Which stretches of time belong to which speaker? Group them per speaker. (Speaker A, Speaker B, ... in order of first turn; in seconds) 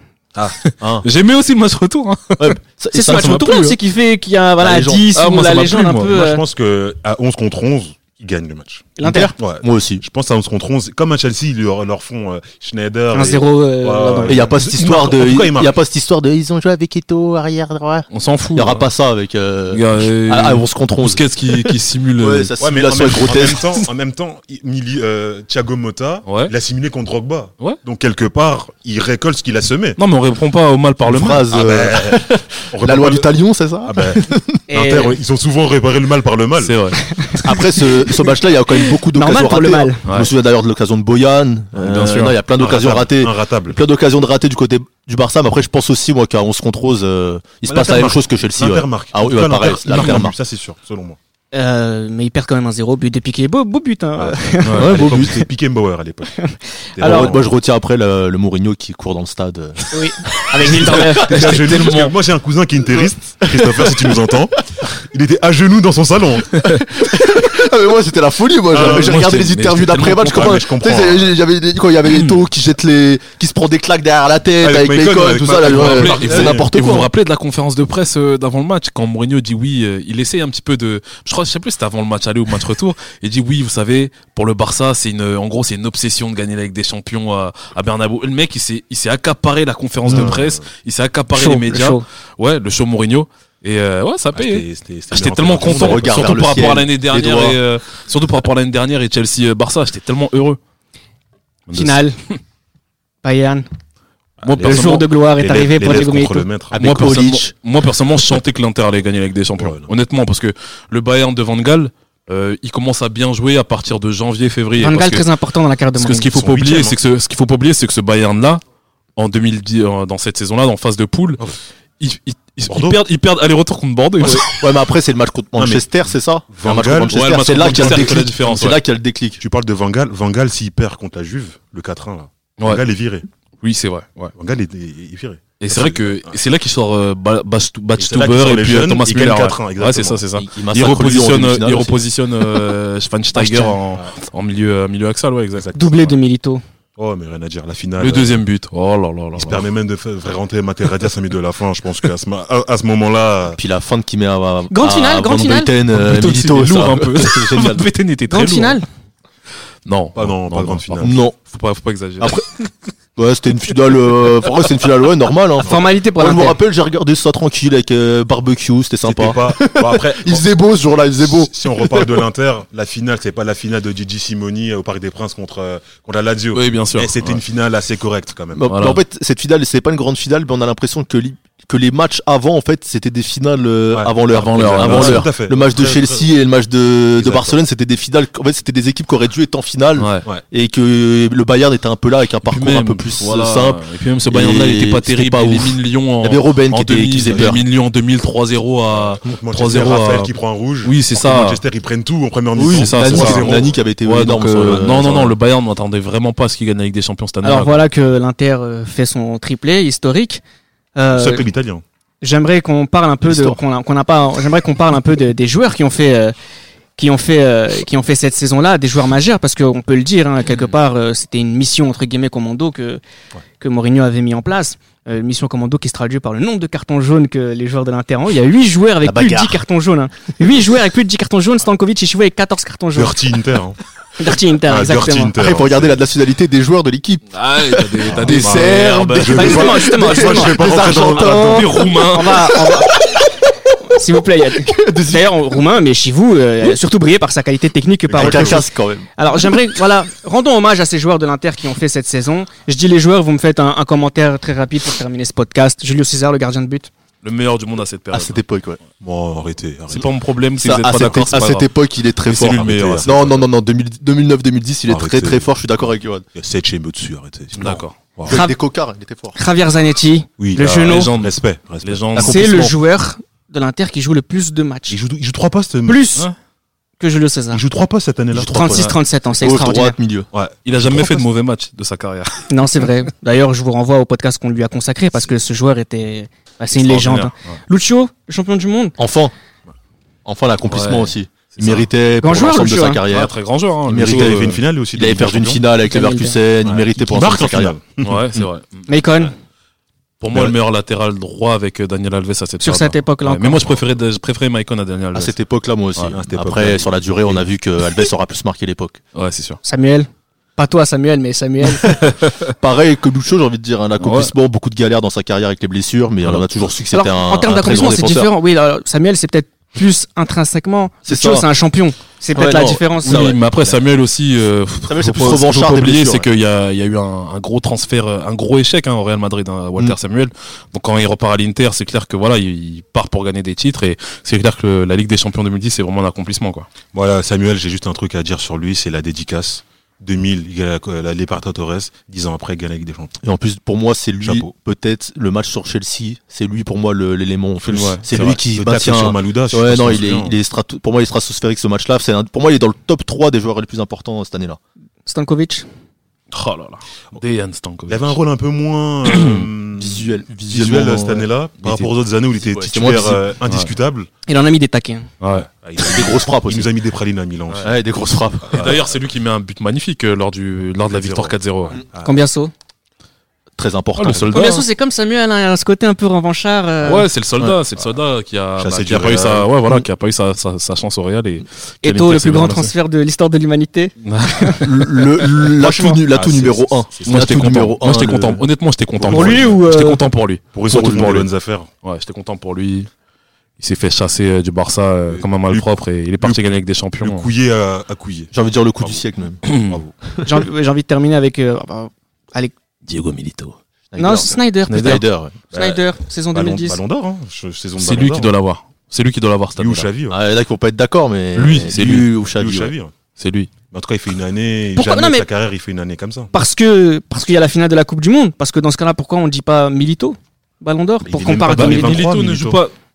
Speaker A: 0.6-3.8, 5.2-6.1, 18.1-18.9, 19.7-22.5, 26.2-26.5, 30.0-31.5, 36.6-37.0, 41.8-42.4, 49.9-50.2, 54.6-55.3, 60.7-62.1, 68.7-70.6, 72.1-72.4, 75.5-100.6, 101.7-102.1, 104.4-105.0, 106.8-115.3, 116.0-118.6, 119.2-121.4, 122.0-124.6, 127.1-128.8, 133.6-134.3, 135.6-145.7, 148.0-149.7, 155.9-158.8, 159.9-162.4, 176.6-177.4, 178.7-179.0, 184.3-185.3, 190.0-190.3, 192.5-201.6, 202.6-207.8, 237.3-239.8, 241.3-242.4, 257.2-258.4, 259.9-261.7, 262.2-263.4, 267.6-268.0, 270.6-272.6, 280.6-282.5, 286.8-287.6, 290.7-291.9, 293.1-294.6, 298.0-298.9, 300.2-305.4, 309.1-309.6, 312.0-312.3, 314.0-314.3, 323.0-336.7, 347.6-348.1, 356.3-358.2, 359.1-359.4, 365.2-365.5, 368.5-371.8, 374.0-374.6, 376.8-382.7, 384.0-391.3, 391.8-392.9, 393.6-397.3, 399.4-399.8, 402.9-403.6, 404.7-405.0, 407.8-409.9, 411.4-412.1, 413.2-413.5, 421.5-422.7
Speaker B: 0.8-1.1, 2.4-3.4, 4.6-5.1, 9.0-10.0, 14.3-23.9, 31.0-34.6, 37.4-50.4, 54.8-55.5, 57.0-61.6, 62.9-64.8, 66.6-77.1, 95.6-97.6, 106.7-107.5, 124.2-129.4, 140.3-142.0, 143.4-143.8, 153.6-157.9, 161.0-161.4, 162.2-162.5, 163.2-172.3, 178.6-197.6, 202.6-205.4, 213.3-213.6, 229.1-229.6, 235.4-242.8, 244.7-245.3, 248.2-249.1, 258.1-258.8, 260.6-266.2, 268.2-269.4, 272.1-272.8, 278.3-280.3, 289.0-289.3, 290.2-293.4, 293.9-297.7, 305.1-309.0, 311.8-318.3, 321.1-321.5, 322.3-323.8, 324.9-326.3, 343.2-354.6, 359.8-363.2, 365.8-366.7, 367.6-368.8, 373.6-374.6, 384.6-388.4, 398.3-399.4, 403.9-405.4, 410.1-412.7
Speaker C: 2.9-6.4, 9.0-9.3, 13.1-14.5, 34.7-35.2, 37.0-40.0, 51.5-55.0, 56.4-57.3, 59.9-61.7, 91.3-92.0, 101.7-102.2, 103.2-103.7, 104.6-106.5, 114.8-116.3, 145.8-146.6, 154.7-155.7, 158.3-158.8, 165.6-166.6, 207.4-210.4, 211.0-211.4, 212.2-216.3, 217.0-223.0, 223.6-233.2, 234.2-235.3, 239.2-242.9, 243.9-256.9, 268.3-268.6, 269.4-271.1, 272.2-275.0, 275.9-276.3, 277.0-277.6, 278.5-280.0, 282.5-289.0, 292.2-293.0, 295.9-296.4, 298.9-299.3, 302.6-303.8, 309.6-311.9, 316.9-323.4, 355.1-355.7, 364.3-365.1, 372.0-372.5, 374.3-377.1, 381.8-384.7, 389.1-390.0, 400.2-402.5, 404.0-406.8, 414.8-415.3, 416.3-422.1
Speaker D: 6.0-15.8, 22.6-30.0, 31.5-33.3, 33.9-36.8, 42.6-43.8, 47.7-51.2, 54.2-56.4, 57.0-57.5, 61.0-66.7, 68.7-69.2, 70.1-71.3, 74.6-76.7, 90.1-90.6, 94.3-96.4, 104.4-106.8, 109.6-109.9, 116.3-117.0, 122.7-123.0, 125.6-126.0, 126.5-128.2, 129.4-133.3, 134.4-136.4, 138.0-140.2, 145.6-146.2, 147.0-148.4, 149.4-153.6, 160.2-161.2, 169.0-170.4, 171.2-178.7, 183.9-186.3, 187.2-187.6, 197.2-197.6, 198.9-203.8, 211.1-211.8, 232.9-233.8, 234.7-236.0, 238.2-241.7, 248.1-248.6, 259.0-260.1, 262.4-263.4, 264.9-268.4, 270.4-272.1, 274.9-276.1, 277.5-278.6, 280.3-281.3, 294.0-295.6, 296.6-298.2, 306.1-307.4, 336.9-343.1, 344.2-344.5, 348.1-350.4, 357.9-364.1, 365.5-367.7, 368.5-368.9, 370.9-372.2, 378.6-379.5, 386.1-387.5, 389.0-389.6, 390.5-391.7, 395.1-395.7, 397.0-399.9, 405.5-408.3, 409.6-410.2, 411.9-412.9, 413.7-416.3, 421.1-422.6